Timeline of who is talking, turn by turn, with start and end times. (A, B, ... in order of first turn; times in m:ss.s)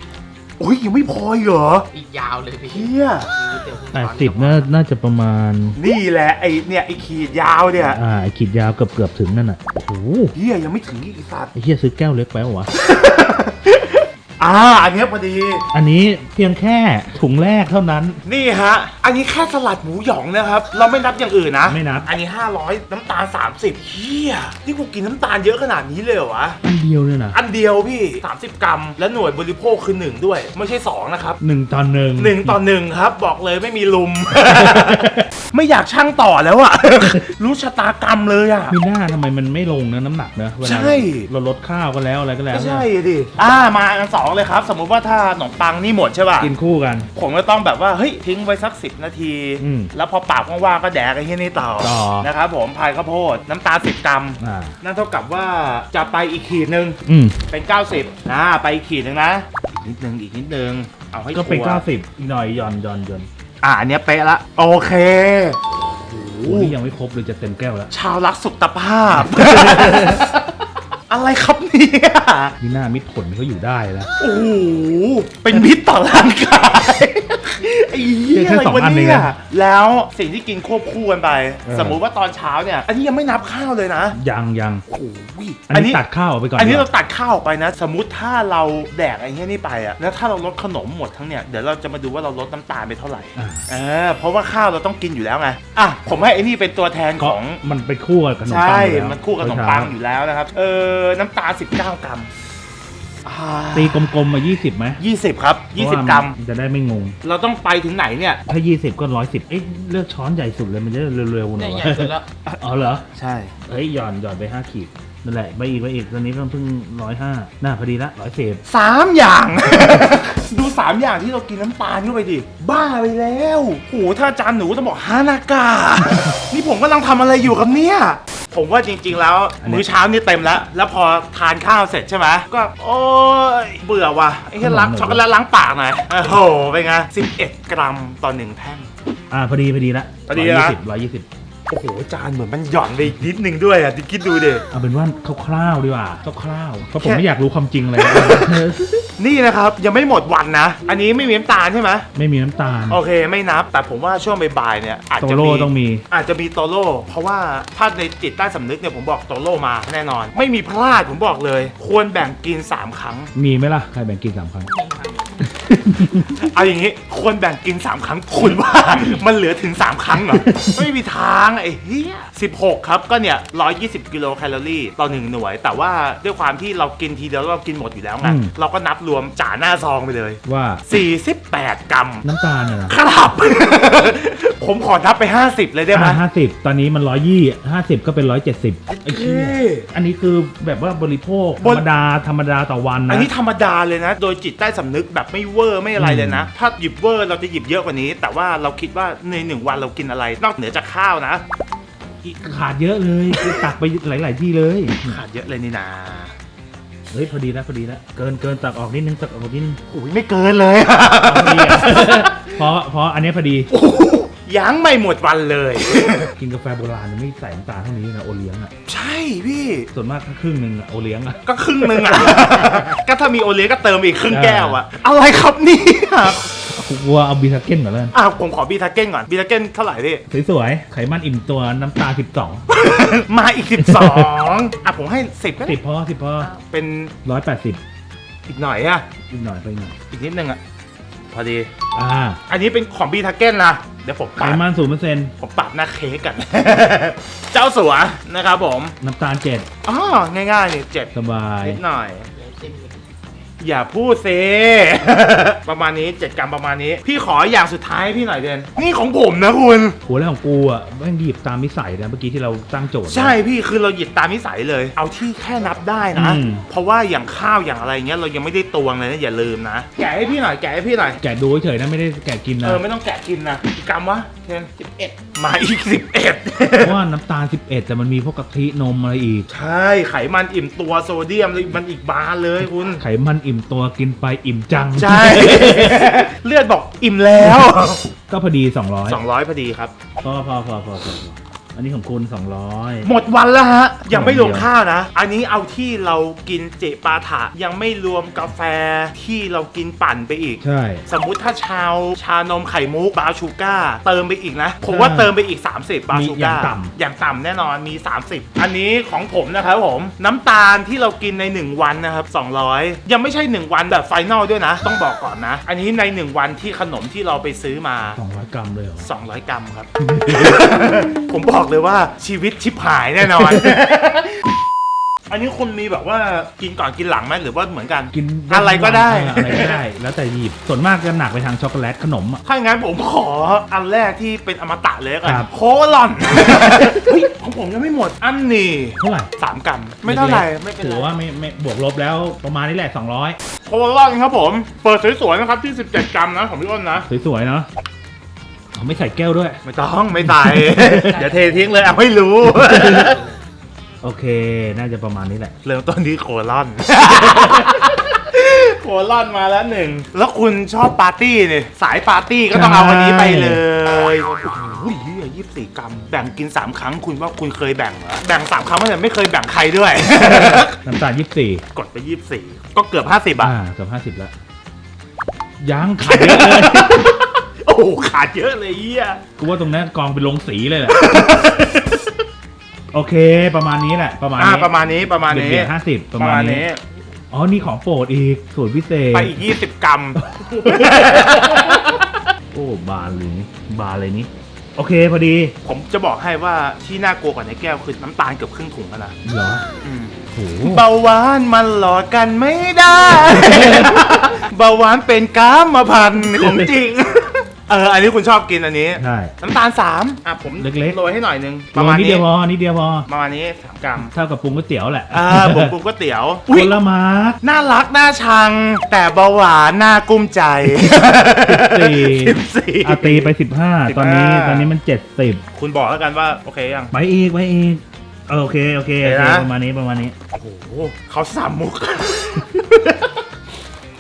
0:00.6-0:01.9 A
0:01.9-0:04.7 B
0:02.6-0:03.3 A
0:03.9-0:05.8 C
0:05.8-0:08.0 A
0:07.9-0:10.4 C
0:10.3-0:11.6 A
0:11.6-0:12.7 C
0:12.7-0:15.7 A
0:15.7-0:18.2 C
0:18.2-0:26.6 A
0:21.7-0:22.1 C
0:26.6-0:27.4 C
0:27.3-0:31.4 A
0:31.4-0:32.6 C
0:32.2-0:38.8 A
0:34.7-0:35.2 C
0:38.7-0:42.9 C
0:40.6-0:41.3 A
0:42.5-0:46.5 A
0:46.4-0:47.1 C
0:47.1-1:01.9 A
0:49.6-0:49.9 C
0:51.8-0:52.3 C
0:54.4-0:54.8 C
0:57.1-0:57.4 C
1:01.3-1:03.3 C
1:03.6-1:06.8 A
1:06.4-1:07.9 C
1:07.9-1:12.6 A
1:09.2-1:10.2 C
1:12.6-1:14.1 C
1:14.2-1:24.2 A
1:18.2-1:19.3 C
1:21.7-1:22.0 C
1:24.1-1:24.8 C
1:24.9-1:26.0 A
1:25.7-1:26.9 C
1:26.6-1:37.6 A
1:33.4-1:33.7 C
1:37.2-1:40.0 C
1:38.5-1:42.3 A
1:43.2-1:44.1 A
1:43.7-1:45.0 C
1:45.0-1:46.4 A
1:45.8-1:47.2 C
1:47.2-1:48.4 A
1:48.5-1:53.0 C
1:51.6-1:52.3 B
1:53.1-1:53.6 A
1:53.6-1:58.6 C
1:58.6-2:18.9 A
2:14.6-2:15.2 C
2:19.3-2:21.3 C
2:20.3-2:20.8 A
2:21.7-2:24.6 A
2:24.7-2:29.0 C
2:27.0-2:27.3 A
2:27.9-2:28.6 A
2:29.2-2:32.1 A
2:32.2-2:33.0 C
2:32.9-2:43.3 A
2:35.2-2:36.0 C
2:43.4-2:44.7 C
2:44.7-2:45.4 B
2:45.5-2:46.4 C
2:46.4-3:02.3 A
2:50.3-2:50.9 C
2:58.2-2:58.5 C
3:00.4-3:00.8 C
3:02.2-3:03.0 C
3:02.9-3:06.2 A
3:05.9-3:13.3 C
3:08.9-3:09.9 A
3:11.6-3:11.9 A
3:13.1-3:21.4 A
3:16.0-3:16.5 C
3:22.2-3:25.2 C
3:23.3-3:23.6 A
3:25.0-3:26.4 A
3:27.1-3:29.8 C
3:29.9-3:32.6 A
3:31.2-3:33.7 C
3:33.7-3:36.4 A
3:36.4-3:38.7 C
3:38.9-3:39.9 A
3:39.9-3:43.0 C
3:41.4-3:46.6 A
3:44.3-3:44.8 C
3:46.6-3:48.1 C
3:48.1-3:50.2 A
3:50.3-3:52.6 C
3:52.7-3:55.8 A
3:53.8-3:54.3 C
3:55.6-3:56.5 C
3:56.4-3:57.2 A
3:57.2-3:57.8 C
3:58.5-3:59.1 A
3:59.3-4:00.0 C
4:00.1-4:00.6 A
4:01.3-4:01.7 A
4:02.0-4:02.4 C
4:02.5-4:04.6 A
4:04.4-4:05.3 C
4:05.4-4:09.0 A
4:09.0-4:09.7 C
4:09.8-4:12.3 A
4:11.1-4:11.8 C
4:12.3-4:13.0 B
4:13.6-4:20.0 A
4:20.1-4:23.4 C
4:23.1-4:31.2 A
4:26.1-4:26.6 C
4:31.2-4:32.8 C
4:32.6-4:37.0 A
4:36.8-4:39.5 C
4:39.5-4:43.0 A
4:43.0-4:46.1 C
4:44.9-4:48.1 A
4:48.3-4:49.2 C
4:49.0-4:50.0 A
4:50.2-4:53.1 C
4:53.0-5:18.2 A
4:54.1-4:54.7 C
5:00.6-5:01.0 C
5:04.9-5:05.3 C
5:06.1-5:06.9 C
5:18.2-5:19.1 C
5:19.0-5:24.5 A
5:20.1-5:20.9 C
5:25.3-5:29.8 A
5:28.1-5:32.4 C
5:32.4-5:41.1 A
5:35.2-5:35.5 C
5:39.0-5:39.3 C
5:40.0-5:43.4 C
5:43.6-5:47.1 A
5:47.1-5:47.7 C
5:48.7-5:49.6 C
5:49.6-5:53.3 A
5:50.5-5:51.2 C
5:51.2-5:51.5 B
5:52.6-5:53.1 C
5:54.0-5:55.6 C
5:55.6-6:10.8 A
6:02.5-6:03.6 C
6:10.2-6:11.6 C
6:11.7-6:13.6 A
6:13.4-6:14.3 C
6:15.6-6:17.1 C
6:16.0-6:19.3 A
6:19.4-6:21.0 C
6:20.9-6:22.1 A
6:22.9-6:24.7 C
6:24.4-6:26.8 A
6:25.2-6:26.7 C
6:27.3-6:29.4 C
6:29.1-6:32.2 A
6:30.4-6:31.8 C
6:32.5-6:35.6 C
6:35.6-6:39.2 A
6:39.2-6:39.6 C
6:39.8-6:52.3 A
6:40.4-6:40.9 C
6:46.3-6:46.8 C
6:49.0-6:49.3 C
6:50.6-6:51.0 C
6:51.7-6:53.1 C
6:53.1-6:54.1 A
6:54.0-6:55.7 C
6:55.1-6:56.8 A
6:56.5-6:57.4 C
6:57.4-7:03.3 A
7:00.7-7:05.4 C
7:03.8-7:04.7 A
7:05.5-7:06.9 A
7:06.9-7:10.2 C
7:09.0-7:09.5 A
7:10.3-7:13.2 A